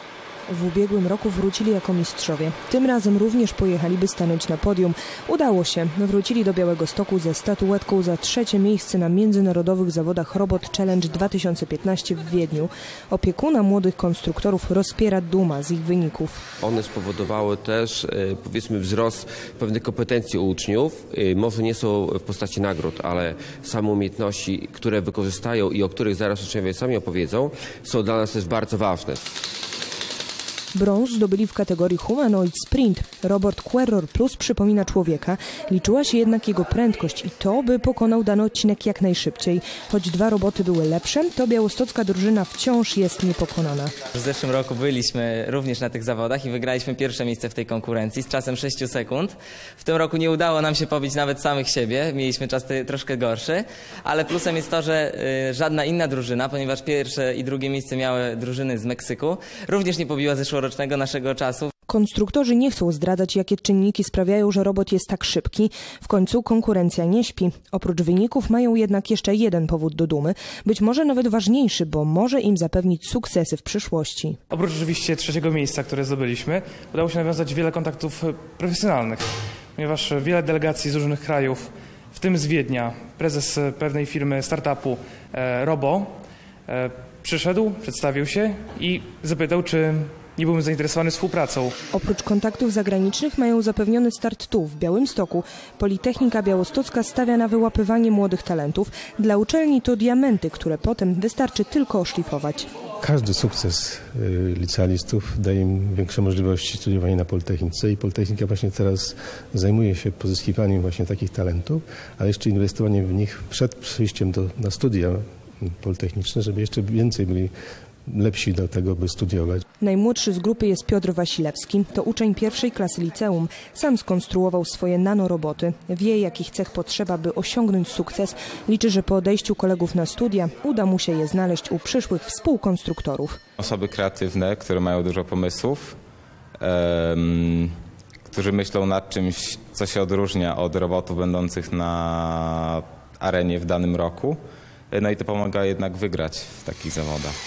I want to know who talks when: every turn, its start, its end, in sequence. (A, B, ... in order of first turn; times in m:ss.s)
0:00.5-0:16.4 A
0:16.6-0:29.4 B
0:30.7-0:43.9 A
0:44.1-1:01.7 C
1:01.9-1:14.4 A
1:14.5-1:26.1 D
1:26.7-1:31.7 D
1:31.9-1:42.7 A
1:43.0-1:57.5 E
1:58.1-1:59.6 E
1:59.8-2:13.4 A
2:13.6-2:16.0 F
2:16.6-2:24.4 F
2:24.9-2:27.4 F